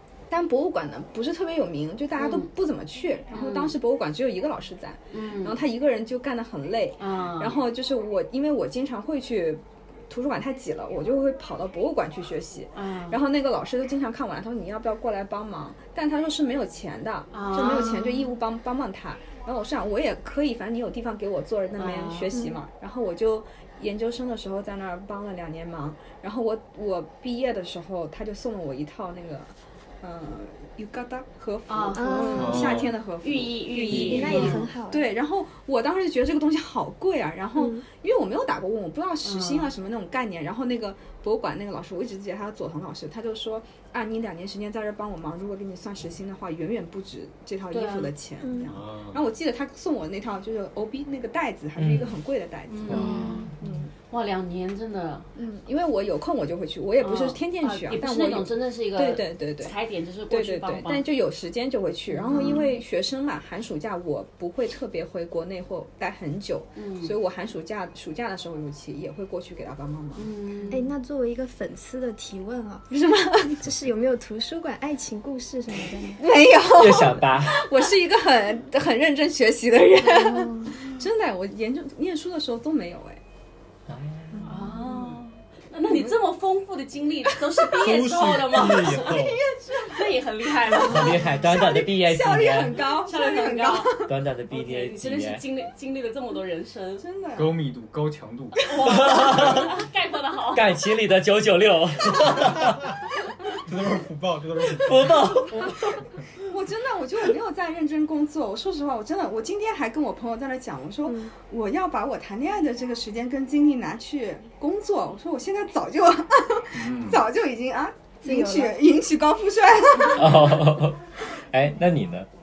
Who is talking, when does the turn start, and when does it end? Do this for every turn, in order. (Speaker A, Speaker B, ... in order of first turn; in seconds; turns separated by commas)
Speaker A: 0.3-53.9, Speaker B: 2.2-2.5, Speaker B: 3.3-3.8, Speaker B: 5.1-5.6, Speaker B: 7.0-7.6, Speaker B: 12.7-13.2, Speaker B: 17.3-18.2, Speaker C: 17.5-18.3, Speaker B: 21.8-22.3, Speaker C: 22.3-22.6, Speaker B: 31.7-32.6, Speaker C: 31.9-32.8, Speaker D: 32.4-33.0, Speaker B: 33.2-34.7, Speaker D: 33.9-34.4, Speaker C: 33.9-35.1, Speaker C: 37.5-37.9, Speaker B: 39.2-39.7, Speaker B: 47.7-48.1, Speaker C: 48.4-48.8, Speaker D: 48.7-49.2, Speaker E: 51.8-52.2, Speaker B: 52.7-53.5, Speaker E: 52.9-53.5, Speaker C: 53.0-53.5, Speaker B: 54.1-55.3, Speaker A: 55.4-59.8, Speaker B: 57.0-61.0, Speaker A: 60.3-70.7, Speaker B: 62.1-62.7, Speaker C: 62.3-62.7, Speaker B: 66.8-67.2, Speaker B: 70.2-70.9, Speaker C: 70.7-72.9, Speaker A: 72.9-73.7, Speaker C: 73.5-76.2, Speaker A: 76.2-83.2, Speaker E: 76.7-77.7, Speaker C: 80.0-80.8, Speaker E: 83.9-84.5, Speaker C: 84.3-84.8, Speaker B: 84.5-91.3, Speaker A: 84.7-85.2, Speaker A: 85.9-86.2, Speaker A: 87.3-88.0, Speaker F: 87.8-89.4, Speaker A: 88.5-90.1, Speaker A: 90.6-94.1, Speaker E: 90.8-92.8, Speaker B: 93.0-97.0, Speaker E: 94.1-95.4, Speaker A: 97.0-97.6, Speaker D: 97.4-98.7, Speaker B: 98.7-100.7, Speaker E: 98.8-99.7, Speaker D: 99.3-99.6, Speaker E: 100.5-102.9, Speaker F: 102.5-102.8, Speaker F: 103.6-105.5, Speaker E: 104.7-106.0, Speaker A: 106.5-120.5, Speaker C: 111.0-111.3, Speaker D: 116.7-117.3, Speaker C: 118.2-118.8, Speaker E: 120.2-122.3